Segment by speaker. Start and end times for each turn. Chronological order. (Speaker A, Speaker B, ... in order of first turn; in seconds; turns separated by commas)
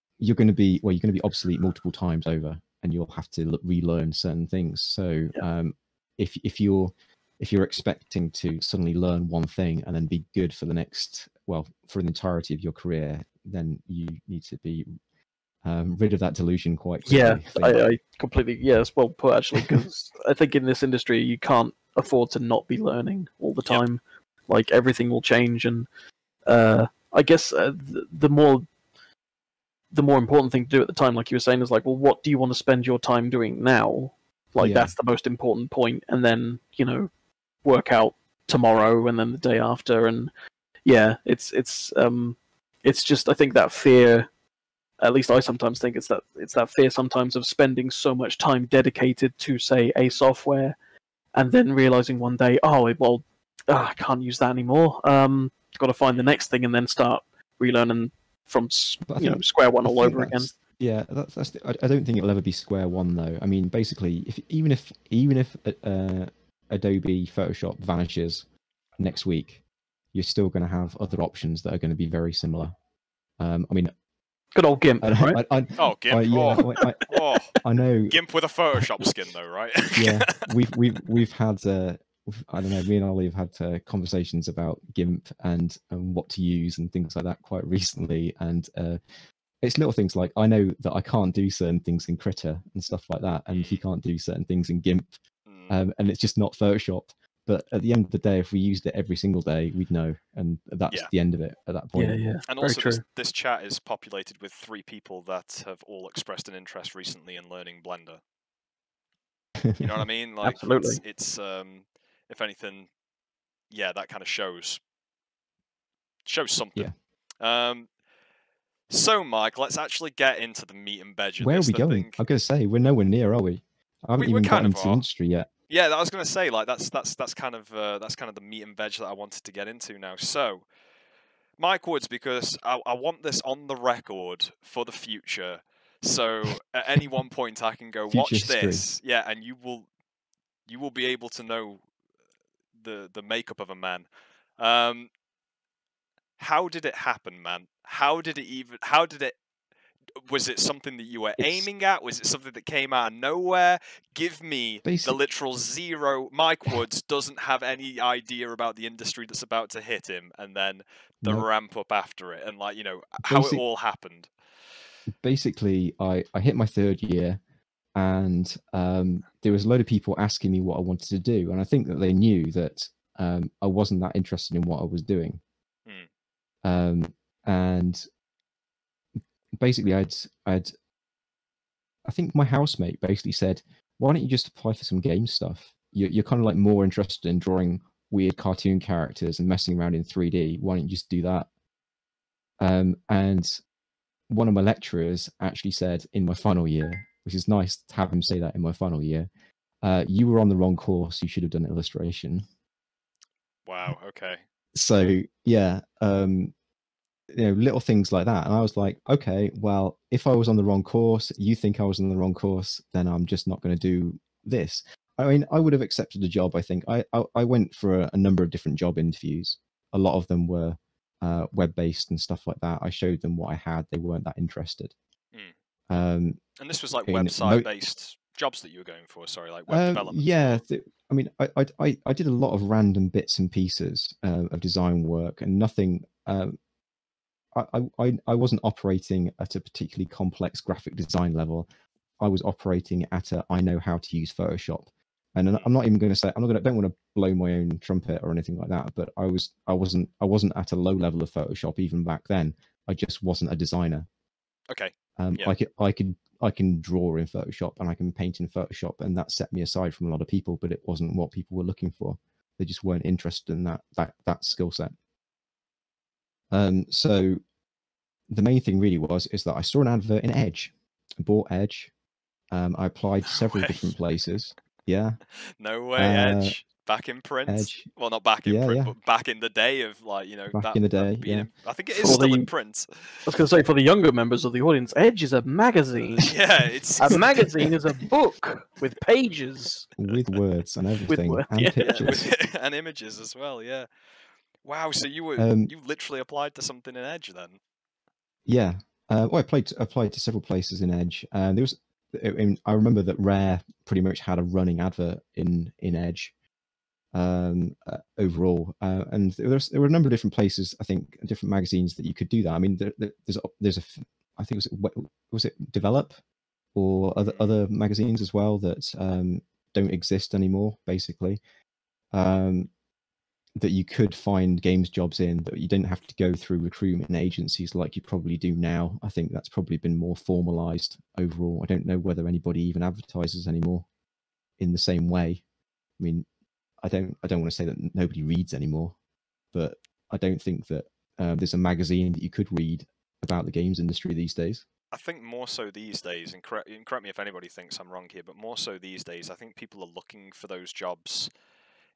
Speaker A: 0.2-14.9, Speaker A: 15.6-17.8, Speaker B: 17.1-25.9, Speaker A: 19.5-19.8, Speaker B: 26.4-28.7, Speaker B: 29.9-37.1, Speaker A: 34.6-34.9, Speaker B: 37.6-40.3, Speaker B: 40.8-44.3, Speaker B: 45.0-50.7, Speaker B: 51.3-60.5, Speaker A: 59.1-68.4, Speaker A: 69.0-69.6, Speaker A: 70.1-72.7, Speaker A: 73.4-73.9, Speaker B: 74.5-75.4, Speaker A: 75.0-78.2, Speaker C: 75.8-77.5, Speaker B: 76.5-76.8, Speaker C: 78.1-80.5, Speaker A: 79.9-89.0, Speaker A: 89.6-95.1, Speaker C: 93.5-93.8, Speaker C: 95.5-95.7, Speaker A: 95.7-102.3, Speaker B: 101.9-103.0, Speaker C: 102.5-108.2, Speaker A: 109.6-110.0, Speaker C: 109.8-112.9, Speaker B: 110.4-111.0, Speaker C: 113.7-114.8, Speaker C: 116.2-117.9, Speaker C: 118.9-122.2, Speaker A: 121.4-125.5, Speaker C: 124.2-125.0, Speaker C: 125.7-130.7, Speaker C: 131.6-139.9, Speaker A: 138.1-138.8, Speaker C: 140.7-141.8, Speaker C: 142.8-145.1, Speaker C: 146.4-149.3, Speaker C: 150.2-164.3, Speaker A: 151.4-151.7, Speaker A: 154.8-155.2, Speaker A: 163.2-163.6, Speaker A: 165.2-167.4, Speaker A: 167.9-175.4, Speaker A: 176.6-178.0, Speaker A: 179.6-180.7, Speaker A: 182.0-191.5, Speaker A: 192.6-193.6, Speaker A: 194.3-199.3, Speaker A: 199.8-202.4, Speaker C: 203.7-204.4, Speaker A: 204.7-206.5, Speaker A: 207.3-224.9, Speaker A: 225.9-226.4, Speaker C: 226.6-230.6, Speaker A: 227.0-227.7, Speaker A: 229.7-236.6, Speaker A: 237.5-241.7, Speaker A: 242.2-254.1, Speaker C: 254.7-255.5, Speaker A: 255.2-264.9, Speaker A: 266.5-267.4, Speaker A: 268.3-271.9, Speaker A: 272.5-275.2, Speaker C: 273.2-273.9, Speaker C: 275.6-283.3, Speaker A: 276.0-276.6, Speaker A: 277.5-277.9, Speaker A: 278.4-278.9, Speaker A: 280.5-281.5, Speaker B: 281.9-282.5, Speaker B: 283.2-286.4, Speaker C: 286.1-287.7, Speaker B: 287.0-289.9, Speaker A: 290.0-292.2, Speaker B: 291.1-292.2, Speaker C: 291.8-293.9, Speaker C: 294.6-297.6, Speaker A: 295.4-295.7, Speaker A: 298.4-306.3, Speaker A: 307.1-316.1, Speaker A: 316.7-321.4, Speaker C: 317.2-317.5, Speaker A: 322.1-322.7, Speaker A: 323.6-333.9, Speaker A: 334.6-335.4, Speaker A: 336.0-336.2, Speaker A: 336.8-338.9, Speaker A: 339.5-344.6, Speaker C: 344.9-351.3